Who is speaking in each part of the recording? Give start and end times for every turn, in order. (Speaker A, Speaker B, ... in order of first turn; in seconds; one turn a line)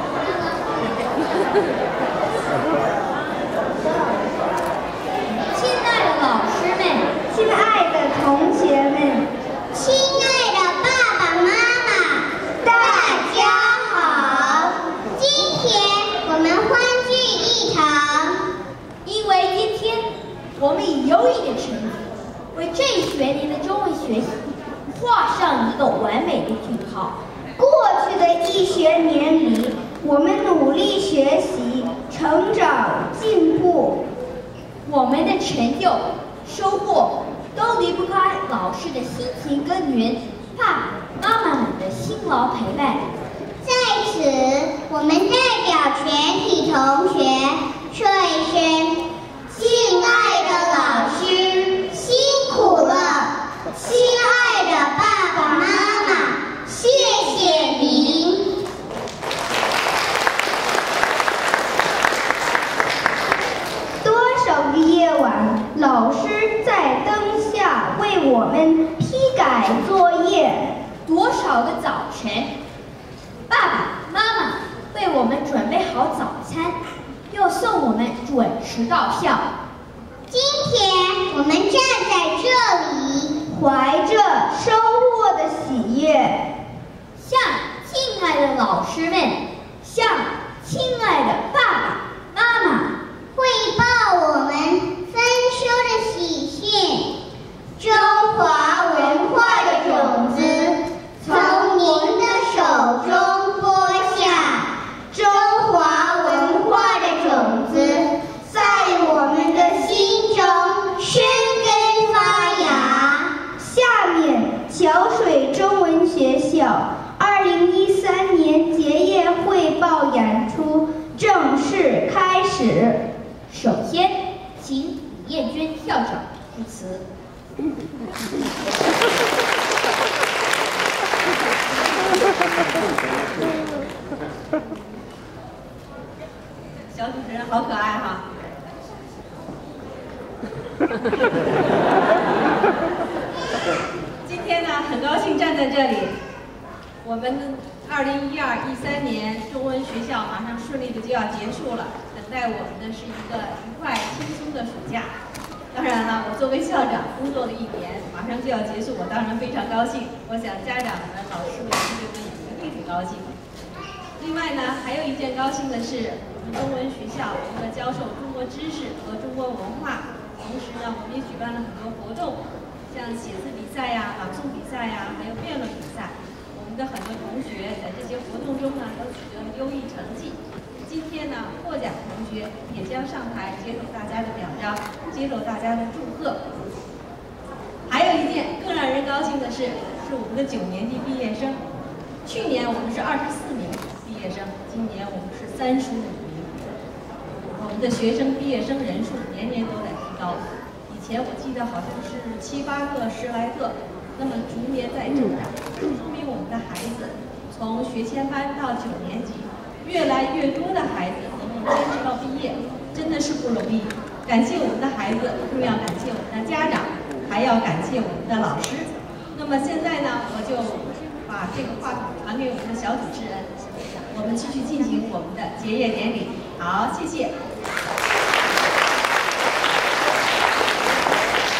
Speaker A: 5.5-7.1
Speaker B: 7.3-9.3
Speaker C: 9.7-18.4
Speaker A: 19.0-27.2
Speaker B: 27.6-34.0
Speaker A: 34.8-43.0
Speaker C: 43.6-58.5
Speaker B: 64.0-70.8
Speaker A: 71.0-72.5
Speaker A: 73.5-76.8
Speaker A: 77.3-79.5
Speaker C: 80.3-83.4
Speaker B: 83.5-86.5
Speaker A: 87.2-92.9
Speaker C: 93.3-97.1
Speaker C: 97.8-113.3
Speaker B: 99.7-100.1
Speaker B: 101.2-102.0
Speaker B: 108.5-109.1
Speaker B: 113.5-123.0
Speaker A: 123.5-127.0
Speaker D: 136.9-138.2
Speaker D: 144.2-146.2
Speaker D: 147.0-155.1
Speaker D: 155.7-163.3
Speaker D: 164.2-186.4
Speaker D: 187.9-191.6
Speaker D: 192.2-196.5
Speaker D: 197.4-223.5
Speaker D: 224.1-227.3